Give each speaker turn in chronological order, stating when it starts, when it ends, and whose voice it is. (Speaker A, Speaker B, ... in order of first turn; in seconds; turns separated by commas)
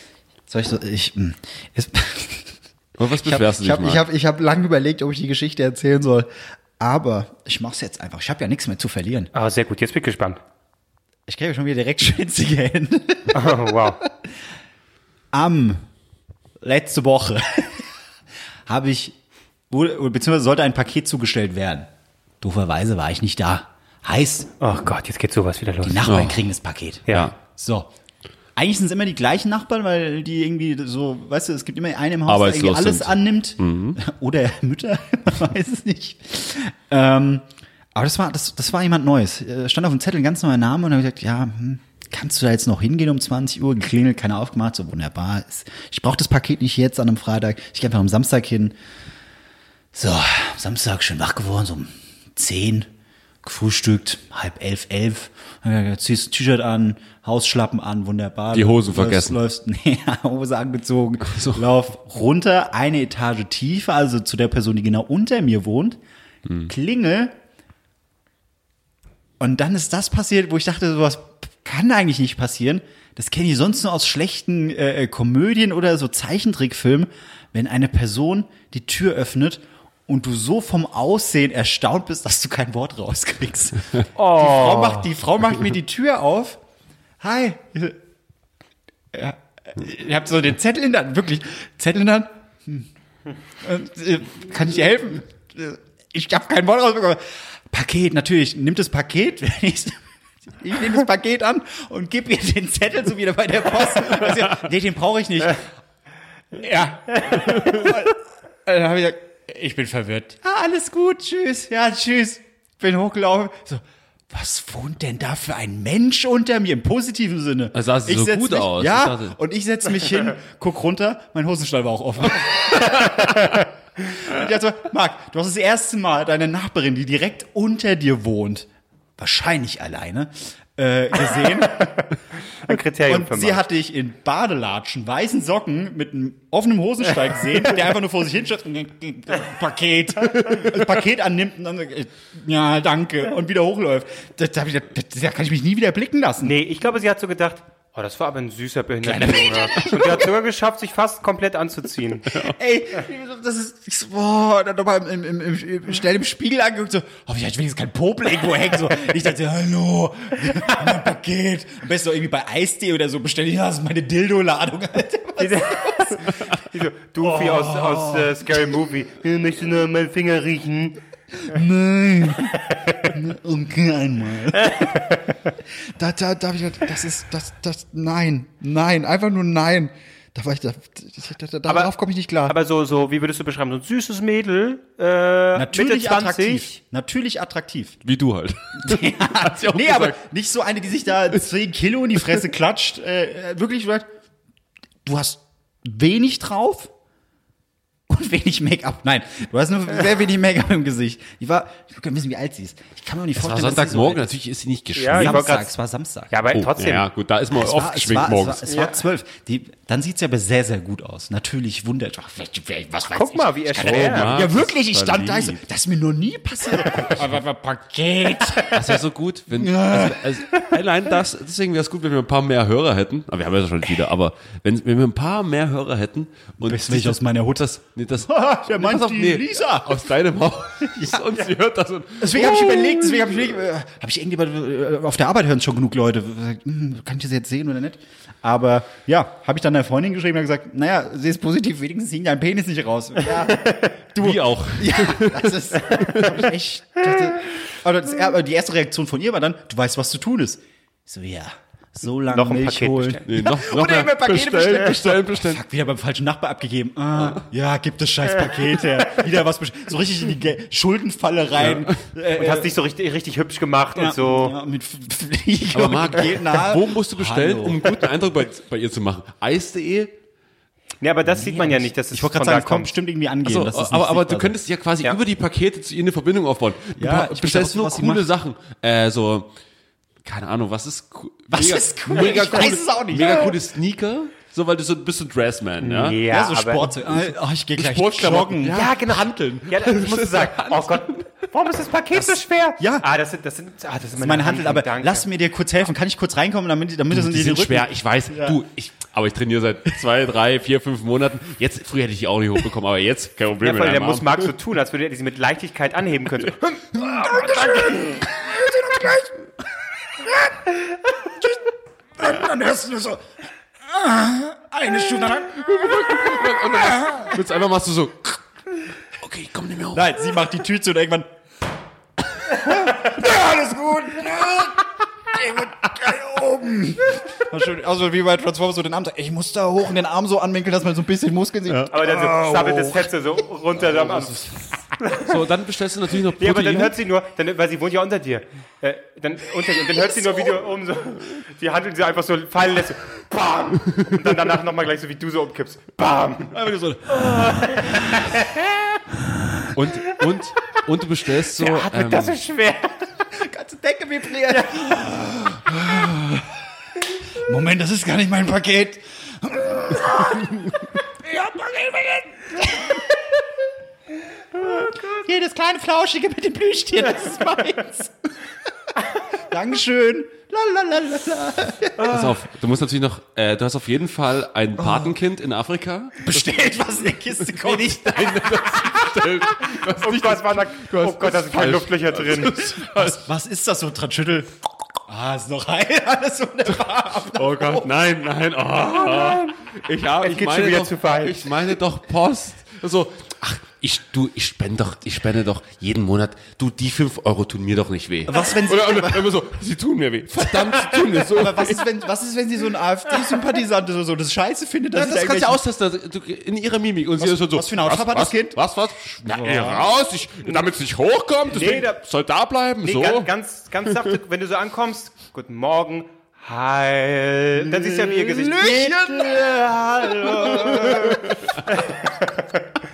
Speaker A: 0.5-2.6, Speaker B: 3.0-4.0, Speaker A: 3.2-9.3, Speaker C: 9.3-10.4, Speaker A: 11.3-14.1, Speaker C: 13.3-14.0, Speaker A: 15.3-15.8, Speaker A: 16.6-17.9, Speaker A: 18.7-19.1, Speaker A: 19.7-21.9, Speaker A: 22.4-24.5, Speaker C: 24.6-26.2, Speaker A: 25.8-27.9, Speaker B: 26.1-26.4, Speaker B: 27.1-27.3, Speaker A: 28.6-48.8, Speaker B: 32.3-34.0, Speaker A: 49.9-52.9, Speaker A: 53.4-66.0, Speaker B: 58.5-59.4, Speaker B: 61.3-61.6, Speaker A: 66.7-67.4, Speaker A: 69.4-86.6, Speaker C: 84.2-85.1, Speaker A: 87.2-88.0, Speaker A: 89.1-92.9, Speaker A: 93.6-100.0, Speaker A: 100.6-105.7, Speaker A: 106.5-128.7, Speaker B: 117.7-119.3, Speaker A: 129.2-132.1, Speaker C: 132.7-133.6, Speaker A: 132.7-146.6, Speaker C: 146.4-152.4, Speaker A: 149.0-150.2, Speaker A: 152.4-166.3, Speaker C: 165.4-171.0, Speaker A: 167.2-168.6, Speaker A: 171.4-175.0, Speaker C: 174.6-175.2, Speaker A: 175.9-182.5, Speaker C: 182.5-186.8, Speaker A: 185.6-188.0, Speaker B: 188.0-190.2, Speaker A: 188.8-194.1, Speaker A: 195.1-196.9, Speaker A: 198.1-204.3, Speaker B: 203.4-205.5, Speaker C: 205.0-205.7, Speaker A: 205.1-206.3, Speaker C: 206.3-207.1, Speaker B: 206.5-208.7, Speaker A: 207.5-219.0, Speaker C: 208.7-209.0, Speaker C: 213.1-214.4, Speaker B: 213.8-215.6, Speaker B: 218.7-233.6, Speaker A: 219.6-220.4, Speaker A: 226.6-227.7, Speaker A: 228.2-230.0, Speaker A: 232.2-262.7, Speaker C: 243.6-243.9, Speaker B: 244.2-246.4, Speaker C: 252.3-253.3, Speaker B: 253.3-255.6, Speaker B: 261.6-262.0, Speaker C: 262.4-264.6, Speaker A: 263.9-268.0, Speaker B: 265.7-270.1, Speaker C: 271.0-272.9, Speaker A: 271.3-274.6, Speaker B: 273.4-279.5, Speaker A: 277.0-278.2, Speaker B: 280.2-286.2, Speaker A: 281.5-283.6, Speaker C: 285.8-286.9, Speaker A: 286.3-288.8, Speaker B: 287.1-291.2, Speaker C: 288.7-295.2, Speaker A: 292.8-293.1, Speaker A: 294.2-298.6, Speaker B: 297.1-304.5, Speaker C: 303.6-307.0, Speaker B: 307.0-307.9, Speaker A: 307.1-309.4, Speaker A: 310.1-311.6, Speaker A: 312.2-313.2, Speaker A: 313.8-317.3, Speaker B: 315.6-318.4, Speaker B: 319.2-320.1, Speaker A: 319.9-321.3, Speaker A: 322.4-333.0, Speaker C: 331.9-334.4, Speaker B: 333.8-334.5, Speaker C: 335.0-335.3, Speaker B: 335.2-337.0, Speaker C: 336.4-348.6, Speaker B: 346.5-347.4, Speaker A: 349.3-349.6, Speaker B: 349.7-352.4, Speaker C: 351.6-353.1, Speaker A: 353.3-356.7, Speaker A: 357.4-363.5, Speaker A: 364.6-368.3, Speaker A: 369.4-372.4, Speaker B: 372.0-383.2, Speaker A: 374.8-375.1, Speaker A: 376.2-379.1, Speaker C: 379.7-382.6, Speaker A: 382.8-387.9, Speaker B: 387.3-401.9, Speaker C: 390.2-391.4, Speaker A: 398.3-399.3, Speaker A: 401.3-405.6, Speaker B: 404.9-413.3, Speaker A: 407.2-408.6, Speaker A: 409.2-409.9, Speaker C: 411.5-412.0, Speaker C: 412.8-418.7, Speaker B: 418.2-421.6, Speaker A: 418.3-421.4, Speaker C: 421.7-422.6